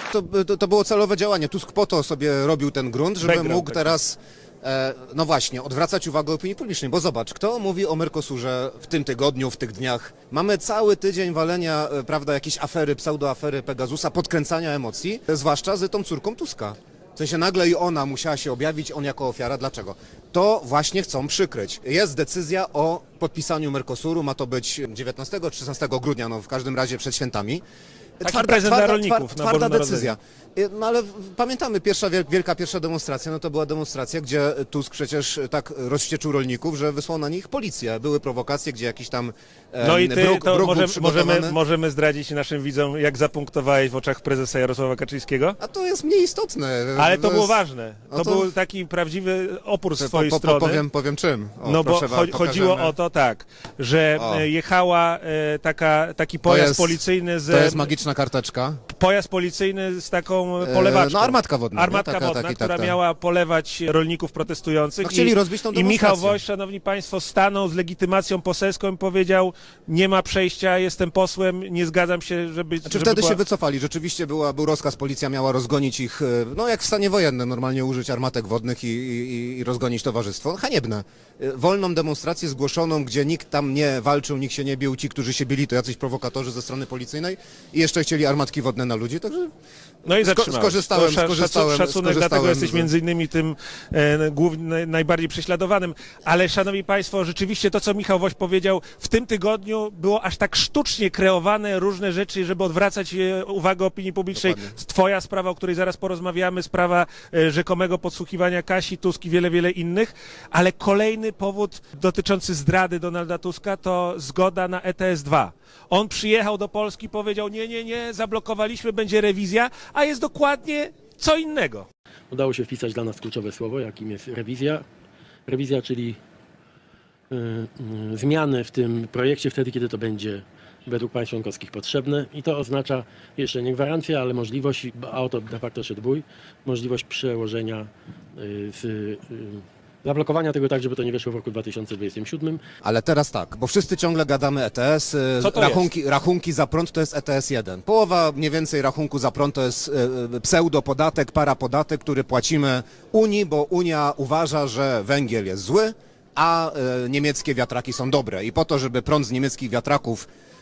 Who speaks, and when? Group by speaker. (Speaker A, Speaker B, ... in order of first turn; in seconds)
Speaker A: 0.1-27.6, 28.2-41.6, 45.6-47.6, 48.1-48.5, 50.0-52.9, 54.2-54.5, 56.4-58.8, 60.6-63.0, 65.0-66.4, 72.8-89.5, 90.2-92.9, 104.3-104.7, 142.8-160.3
Speaker B: 3.2-3.9, 28.2-30.1, 39.8-45.6, 47.0-50.8, 51.6-57.9, 58.9-73.4, 90.0-121.8, 145.4-145.9
Speaker C: 122.3-124.8, 125.5-126.2, 127.3-142.6